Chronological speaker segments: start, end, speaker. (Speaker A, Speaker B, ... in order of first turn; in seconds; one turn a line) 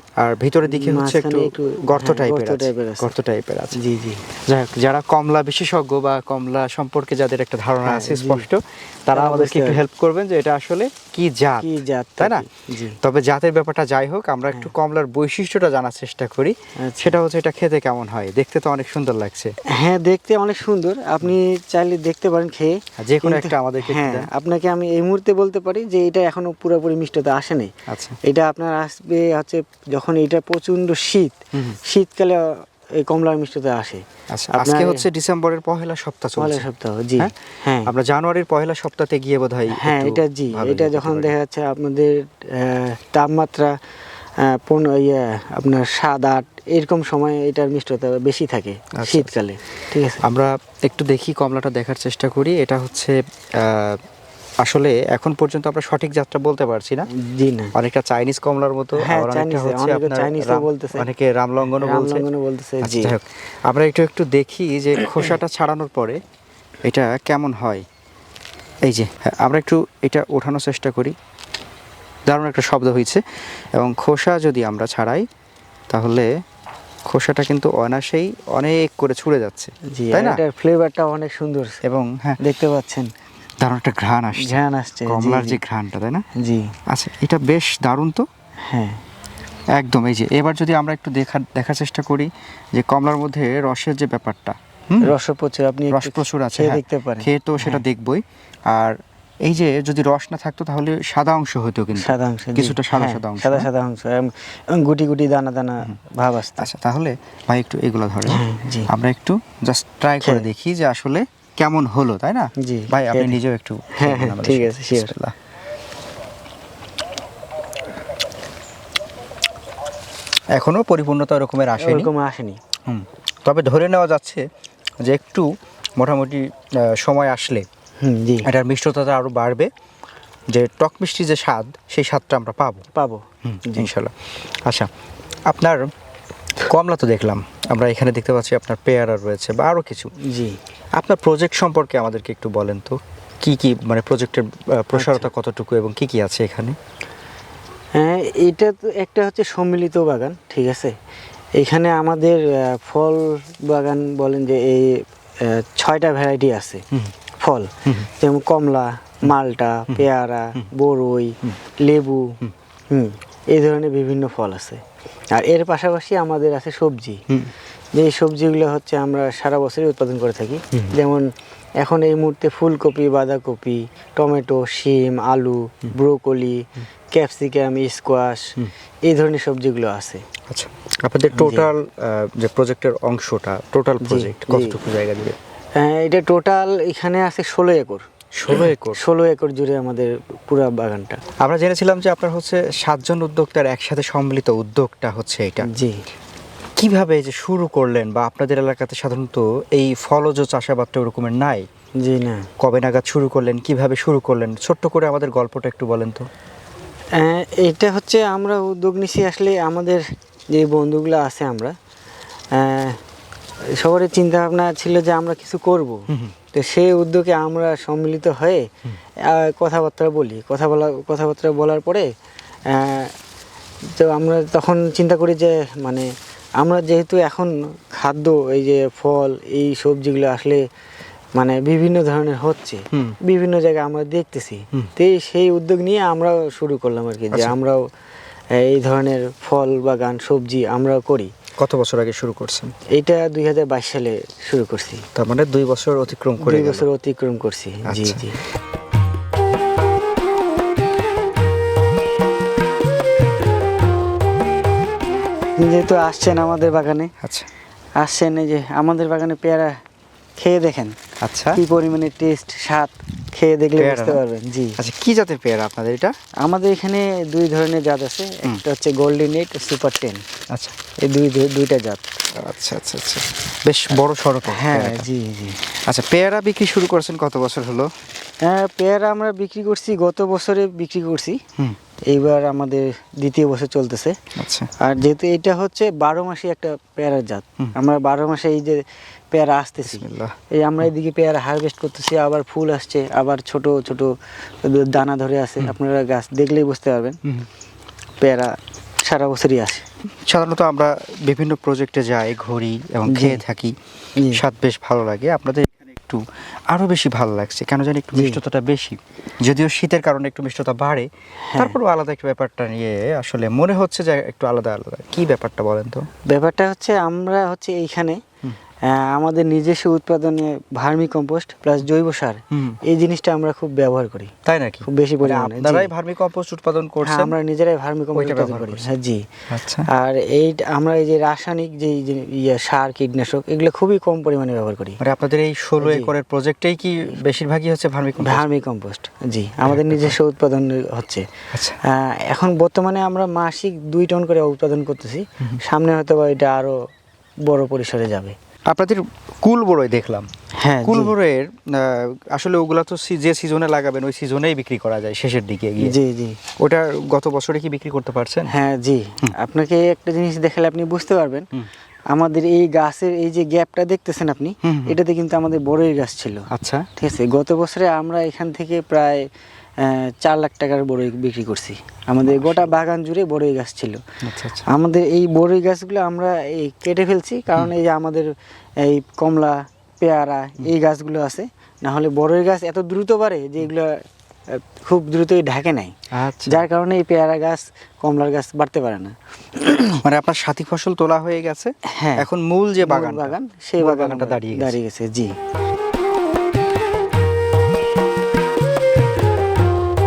Speaker A: 0.2-3.8
Speaker B: 0.7-3.1
Speaker B: 3.7-4.2
Speaker A: 4.5-12.5
Speaker B: 7.8-8.4
Speaker B: 9.1-9.8
Speaker B: 11.6-13.0
Speaker A: 13.0-19.5
Speaker B: 16.8-17.1
Speaker B: 19.7-27.7
Speaker A: 23.0-24.3
Speaker A: 27.9-28.2
Speaker B: 28.2-35.0
Speaker A: 34.3-36.6
Speaker B: 36.4-37.9
Speaker A: 37.2-41.3
Speaker B: 39.7-43.7
Speaker B: 44.4-50.2
Speaker A: 49.0-49.3
Speaker A: 50.2-54.0
Speaker A: 54.6-57.1
Speaker B: 57.1-57.7
Speaker A: 57.7-62.2
Speaker B: 59.0-61.1
Speaker B: 61.7-63.1
Speaker A: 62.8-66.2
Speaker A: 66.8-67.8
Speaker A: 68.8-71.2
Speaker A: 72.3-73.2
Speaker A: 73.7-75.2
Speaker A: 75.9-76.3
Speaker A: 77.0-80.4
Speaker B: 79.9-81.8
Speaker A: 81.8-82.4
Speaker B: 82.4-83.1
Speaker A: 83.6-86.2
Speaker B: 84.4-85.6
Speaker B: 86.4-86.7
Speaker A: 86.9-88.2
Speaker B: 88.7-89.0
Speaker A: 89.7-95.1
Speaker B: 95.0-97.8
Speaker A: 95.9-103.7
Speaker B: 102.0-106.7
Speaker A: 106.6-115.3
Speaker B: 108.3-108.9
Speaker B: 112.6-113.4
Speaker B: 114.0-115.1
Speaker A: 120.5-122.1
Speaker B: 121.8-122.6
Speaker A: 122.8-124.5
Speaker A: 125.0-127.7
Speaker B: 128.0-128.5
Speaker A: 128.4-129.7
Speaker A: 130.5-132.9
Speaker B: 132.9-133.9
Speaker A: 133.4-134.9
Speaker A: 135.5-135.9
Speaker A: 136.6-140.1
Speaker B: 140.2-140.6
Speaker A: 140.9-146.8
Speaker B: 144.9-145.3
Speaker B: 147.9-150.9
Speaker B: 151.6-156.8
Speaker B: 157.4-162.3
Speaker B: 162.9-164.8
Speaker B: 165.3-167.2
Speaker B: 167.9-171.3
Speaker B: 171.8-178.5
Speaker B: 179.1-180.2
Speaker A: 180.5-185.3
Speaker B: 181.3-181.7
Speaker B: 184.0-184.8
Speaker B: 185.8-188.0
Speaker A: 188.3-189.0
Speaker B: 189.0-191.2
Speaker A: 191.4-195.7
Speaker B: 195.6-196.0
Speaker A: 196.8-201.7
Speaker B: 202.0-202.5
Speaker A: 202.6-206.2
Speaker B: 207.2-211.7
Speaker B: 212.5-213.0
Speaker B: 213.8-216.0
Speaker B: 216.5-218.7
Speaker B: 219.2-222.1
Speaker B: 222.7-223.1
Speaker B: 223.9-226.1
Speaker B: 226.6-230.6
Speaker B: 231.3-237.8
Speaker B: 238.6-241.3
Speaker A: 241.6-242.7
Speaker B: 242.9-245.0
Speaker A: 245.1-246.9
Speaker B: 246.4-248.4
Speaker A: 247.8-248.2
Speaker B: 255.6-257.1
Speaker A: 257.2-257.5
Speaker B: 258.0-259.8
Speaker B: 260.4-261.0
Speaker A: 261.2-261.6
Speaker B: 261.5-264.8
Speaker A: 263.8-264.2
Speaker A: 264.8-266.1
Speaker B: 266.4-270.2
Speaker B: 271.0-272.1
Speaker A: 272.4-275.0
Speaker B: 274.5-275.6
Speaker A: 275.9-277.9
Speaker B: 278.4-281.4
Speaker B: 282.1-284.1
Speaker A: 284.4-284.7
Speaker B: 284.8-288.8
Speaker B: 289.3-294.1
Speaker A: 289.9-290.3
Speaker B: 294.6-297.2
Speaker B: 298.2-299.8
Speaker A: 300.2-303.7
Speaker B: 303.1-303.4
Speaker B: 304.2-304.4
Speaker A: 304.3-316.1
Speaker B: 311.5-311.8
Speaker B: 316.3-318.2
Speaker B: 318.9-324.3
Speaker A: 322.5-322.8
Speaker A: 324.4-327.3
Speaker B: 324.9-325.9
Speaker B: 327.0-329.2
Speaker A: 328.1-328.9
Speaker A: 329.5-329.9
Speaker B: 329.9-335.0
Speaker A: 335.0-338.5
Speaker B: 335.8-336.1
Speaker B: 338.2-341.2
Speaker A: 339.6-340.1
Speaker B: 341.8-346.8
Speaker B: 347.4-348.3
Speaker A: 348.7-350.3
Speaker B: 350.6-351.1
Speaker A: 350.8-355.9
Speaker B: 355.8-356.4
Speaker A: 356.6-358.5
Speaker B: 358.5-361.5
Speaker B: 362.1-369.2
Speaker A: 364.6-365.0
Speaker A: 366.5-366.9
Speaker B: 369.8-374.0
Speaker A: 372.2-372.7
Speaker A: 374.2-374.6
Speaker B: 374.7-378.3
Speaker B: 378.8-383.9
Speaker B: 384.5-385.9
Speaker A: 386.1-386.6
Speaker B: 386.5-390.0
Speaker A: 390.0-394.8
Speaker B: 391.9-392.3
Speaker B: 392.8-395.3